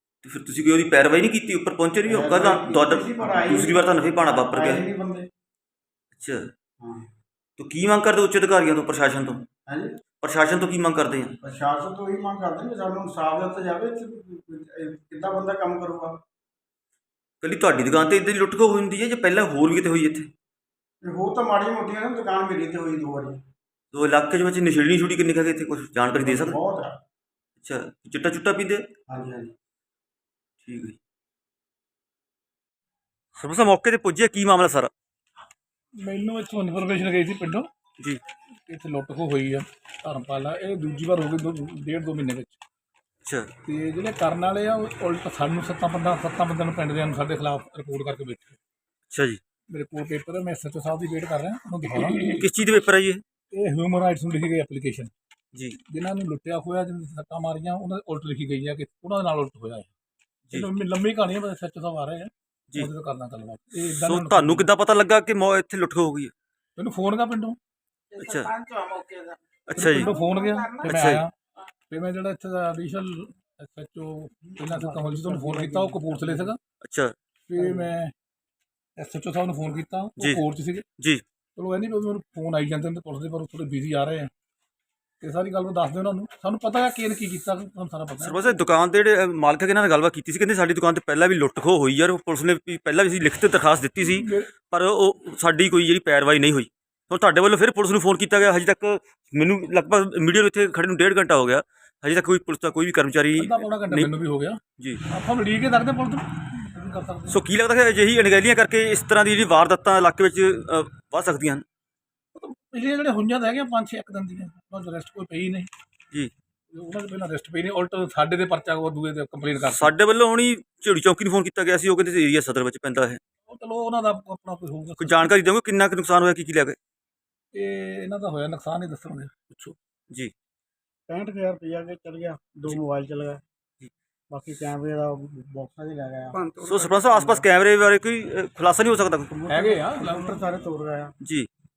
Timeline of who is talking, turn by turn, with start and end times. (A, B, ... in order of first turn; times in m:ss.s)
0:00.2-0:04.8 A
0:02.0-0:03.9 B
0:04.4-0:05.3 B
0:06.1-0:06.5 A
0:06.8-0:07.1 B
0:07.6-0:09.4 A
0:09.7-0:10.0 B
0:10.2-0:11.4 A
0:11.4-0:16.2 B
0:17.4-0:20.3 A
0:21.0-0:23.4 B
0:23.9-0:26.6 A
0:26.2-0:27.0 B
0:27.6-0:28.8 A
0:29.1-0:29.5 B
0:30.6-0:31.0 A
0:33.4-0:34.9 A
0:36.0-0:37.7 C
0:38.6-0:42.6 C
0:43.2-0:43.5 A
0:43.6-0:48.6 C
0:49.1-0:49.4 A
0:49.7-0:52.4 C
0:52.2-0:53.2 A
0:53.5-0:55.1 C
0:55.8-0:59.9 C
1:00.5-1:04.7 C
1:04.0-1:06.3 A
1:06.8-1:07.6 C
1:08.1-1:10.9 B
1:08.2-1:08.5 A
1:09.7-1:10.1 A
1:09.7-1:11.3 C
1:10.8-1:11.2 A
1:11.9-1:16.6 C
1:14.4-1:16.5 B
1:16.8-1:17.1 A
1:17.5-1:18.1 C
1:17.6-1:17.8 B
1:19.0-1:20.8 C
1:20.2-1:20.4 A
1:21.0-1:21.2 A
1:21.6-1:24.3 C
1:25.2-1:28.7 C
1:28.2-1:44.1 A
1:34.0-1:34.5 C
1:43.4-1:47.4 C
1:44.8-1:45.0 A
1:47.3-1:51.6 A
1:52.3-1:55.7 C
1:56.7-1:59.9 C
1:59.6-2:03.2 A
2:03.4-2:05.3 C
2:05.0-2:06.8 A
2:07.5-2:09.8 C
2:11.1-2:13.4 B
2:14.3-2:17.4 B
2:16.6-2:19.3 A
2:19.3-2:21.1 B
2:19.5-2:20.4 C
2:21.2-2:21.5 A